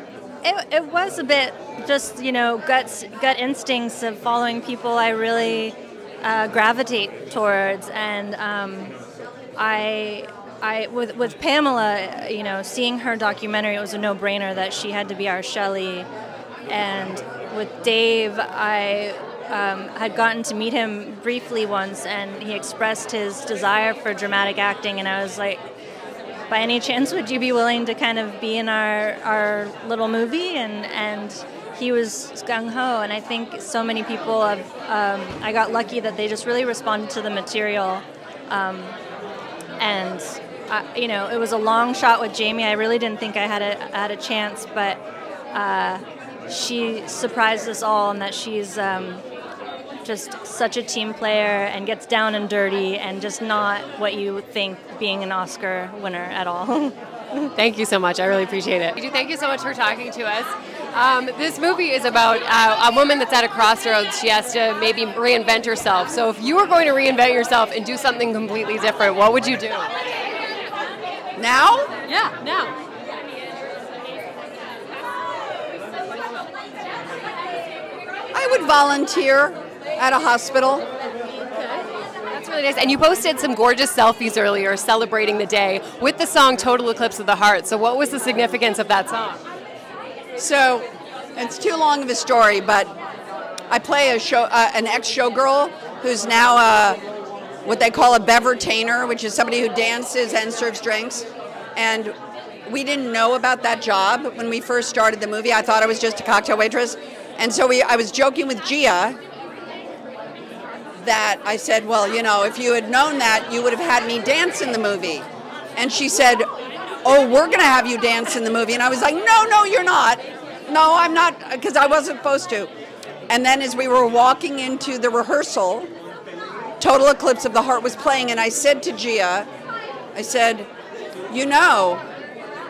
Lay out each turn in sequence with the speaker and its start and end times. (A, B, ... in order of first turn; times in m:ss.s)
0:00.4-0:08.9 A
0:09.6-0:16.1 A
0:16.7-0:25.6 A
0:26.5-0:39.0 A
0:39.8-0:45.0 A
0:45.5-0:49.2 A
0:50.0-0:57.4 A
0:57.6-1:09.9 B
1:11.4-1:11.9 C
1:12.1-1:12.7 B
1:18.3-1:20.9 C
1:21.5-1:29.4 B
1:30.4-1:32.9 C
1:33.7-1:37.0 C
1:37.6-1:42.1 C
1:42.6-1:49.2 C
1:51.0-1:56.5 C
1:57.0-2:02.7 C
2:03.3-2:05.9 C
2:06.8-2:09.5 C
2:10.1-2:10.7 C
2:11.3-2:12.0 C